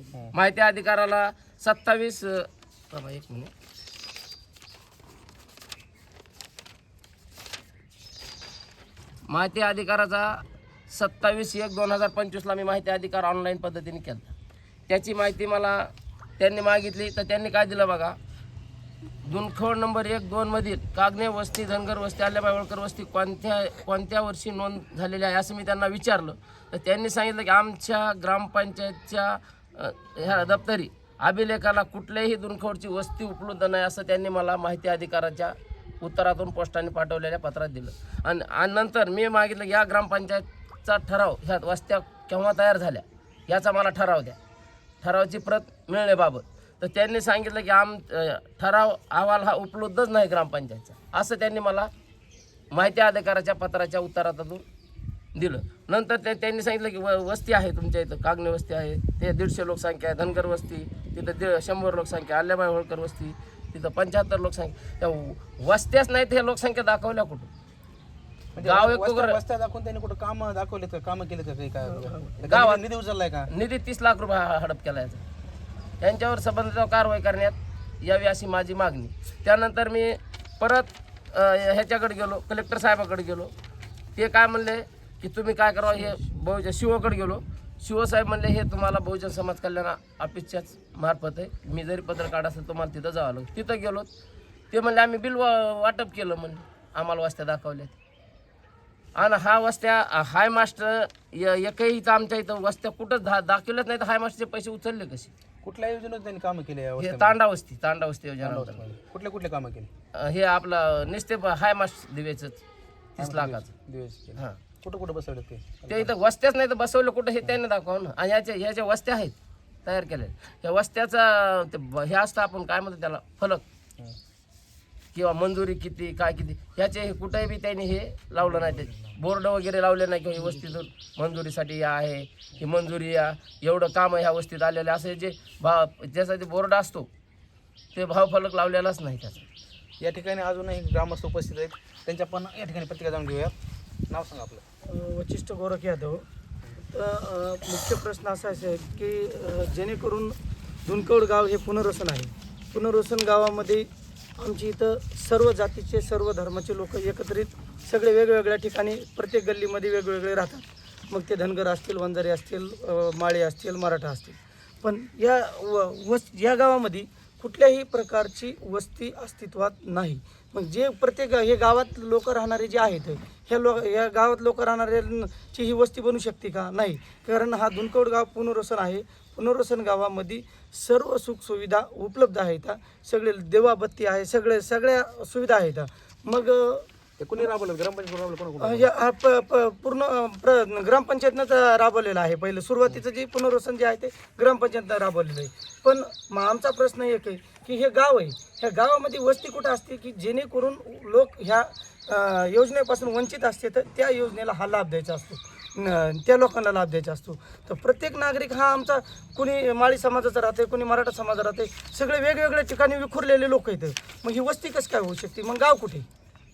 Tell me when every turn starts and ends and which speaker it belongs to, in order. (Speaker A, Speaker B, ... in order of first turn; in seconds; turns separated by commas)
Speaker A: 0.3-3.5, Speaker A: 9.3-14.3, Speaker A: 14.9-15.9, Speaker A: 16.4-18.1, Speaker A: 19.2-44.4, Speaker A: 45.0-51.9, Speaker A: 52.7-54.6, Speaker A: 55.3-67.5, Speaker B: 68.6-73.5, Speaker A: 68.6-69.4, Speaker A: 72.5-72.8, Speaker A: 73.5-75.2, Speaker A: 76.0-83.5, Speaker A: 84.2-94.1, Speaker A: 94.7-97.9, Speaker A: 99.2-105.3, Speaker B: 105.6-107.4, Speaker A: 107.0-108.8, Speaker B: 108.4-109.9, Speaker A: 110.2-112.6, Speaker A: 113.2-113.7, Speaker B: 113.2-116.1, Speaker A: 115.9-119.3, Speaker A: 119.8-123.6, Speaker A: 125.1-137.1, Speaker A: 137.9-139.5, Speaker B: 140.0-143.5, Speaker B: 144.1-144.6, Speaker C: 144.8-146.2, Speaker C: 146.9-150.3, Speaker C: 150.8-186.8, Speaker B: 187.2-188.9, Speaker C: 188.6-216.1